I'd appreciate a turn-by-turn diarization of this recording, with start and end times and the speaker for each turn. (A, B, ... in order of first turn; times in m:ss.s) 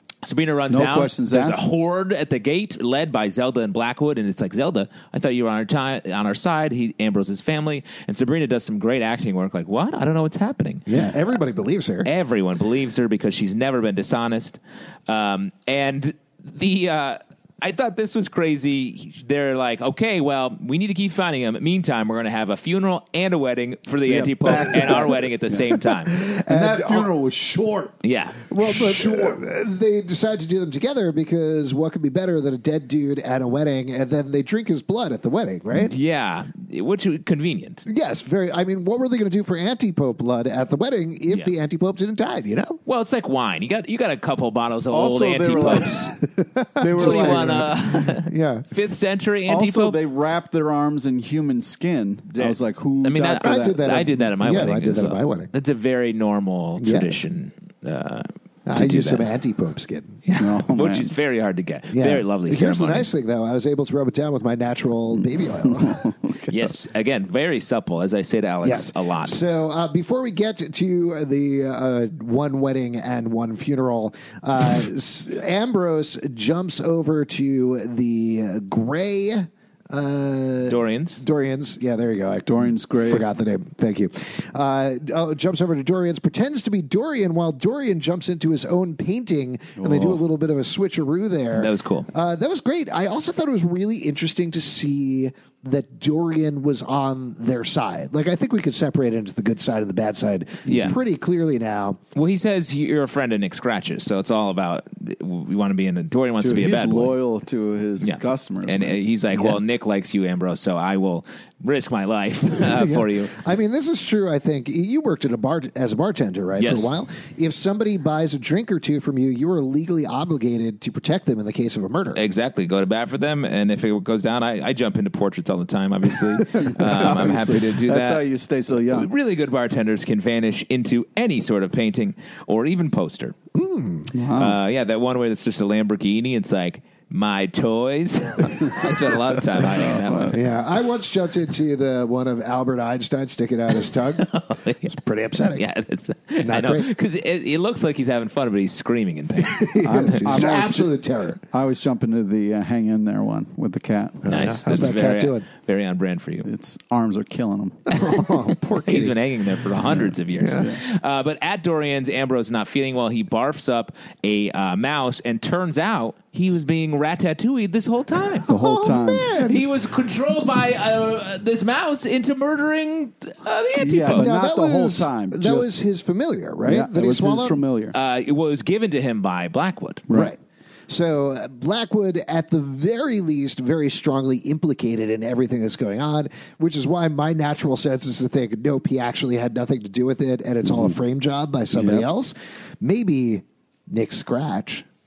0:00.2-0:10.9 A
0:00.7-0:01.6 B
0:10.9-0:12.1 C
0:12.0-0:26.2 A
0:24.1-0:27.9 B
0:24.7-0:25.1 C
0:26.1-0:27.1 C
0:28.0-0:28.6 A
0:28.5-0:35.9 C
0:35.7-0:37.8 A
0:37.8-0:42.8 C
0:42.8-0:46.1 A
0:44.9-0:46.1 B
0:46.3-0:48.7 C
0:46.8-0:47.7 B
0:47.0-0:50.0 A
0:49.5-0:53.9 B
0:52.3-0:59.3 A
0:53.4-0:55.5 C
0:56.8-0:57.1 C
0:58.6-1:00.2 C
1:00.2-1:03.1 A
1:00.4-1:01.1 B
1:01.9-1:06.1 C
1:05.6-1:06.7 B
1:06.5-1:09.4 A
1:08.6-1:42.0 C
1:20.7-1:21.2 A
1:22.4-1:23.2 B
1:29.8-1:30.2 B
1:31.5-1:32.1 A
1:40.6-1:41.0 A
1:42.1-1:47.2 A
1:46.4-1:49.0 B
1:48.0-1:53.3 A
1:49.3-1:49.6 C
1:52.6-2:02.2 C
1:56.6-1:56.9 A
2:02.1-2:08.2 A
2:06.6-2:09.1 B
2:08.9-2:13.4 A
2:13.5-2:14.1 C
2:14.1-2:14.6 B
2:14.3-2:20.4 A
2:19.6-2:20.4 B
2:20.3-2:24.3 C
2:24.2-2:24.9 A
2:24.8-2:25.6 C
2:25.5-2:30.4 A
2:26.4-2:26.9 C
2:29.4-2:31.4 C
2:29.8-2:30.9 B
2:31.5-2:34.2 B
2:34.2-2:35.4 C
2:34.3-2:36.5 A
2:36.4-2:37.9 B
2:37.9-2:39.2 C
2:38.8-2:48.5 A
2:40.3-2:40.7 C
2:48.5-2:49.6 C
2:48.5-2:49.3 B
2:49.4-2:54.3 A
2:53.8-2:55.7 B
2:54.1-2:57.6 C
2:56.6-2:57.9 B
2:57.9-3:00.1 A
3:00.1-3:14.8 C
3:10.6-3:10.9 B
3:11.7-3:12.0 B